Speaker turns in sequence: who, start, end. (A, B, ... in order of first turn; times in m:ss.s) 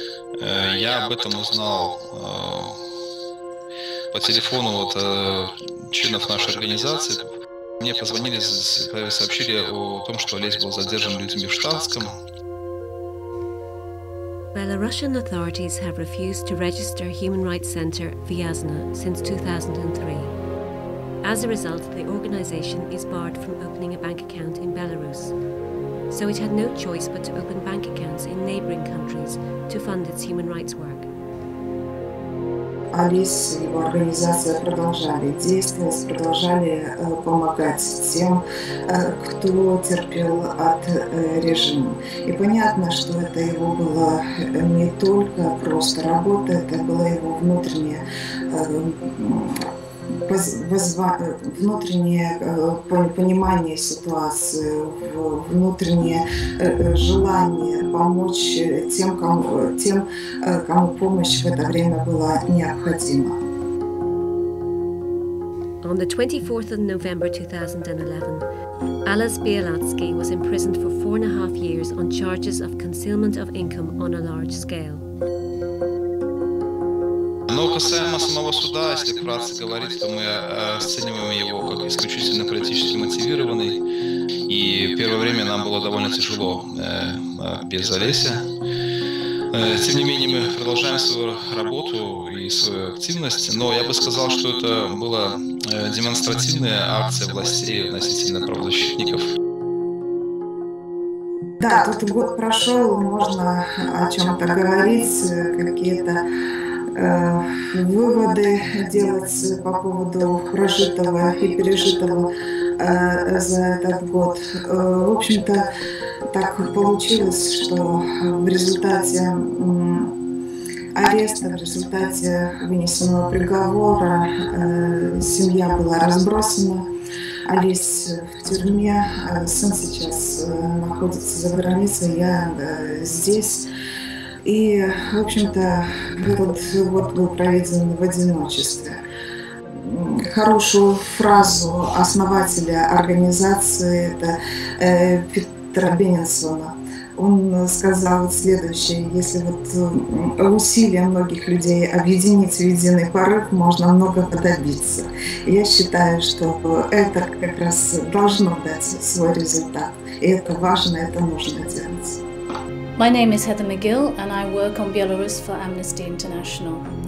0:00.4-0:02.8 A
0:04.1-0:07.2 A
0:07.8-0:12.1 A
0:14.5-0:20.3 B
0:21.2-0:25.3 B
0:26.1-0:31.1 B
0:32.9-0:49.7 C
0:50.2-1:03.4 C
1:05.8-1:08.4 B
1:09.0-1:15.0 B
1:17.5-1:23.8 A
1:24.5-1:28.4 A
1:29.5-1:39.2 A
1:41.6-1:46.2 C
1:46.9-1:55.7 C
1:56.3-2:00.1 C
2:00.9-2:06.8 C
2:07.4-2:13.7 C
2:14.4-2:19.0 C
2:19.7-2:42.2 C
2:43.0-2:46.9 D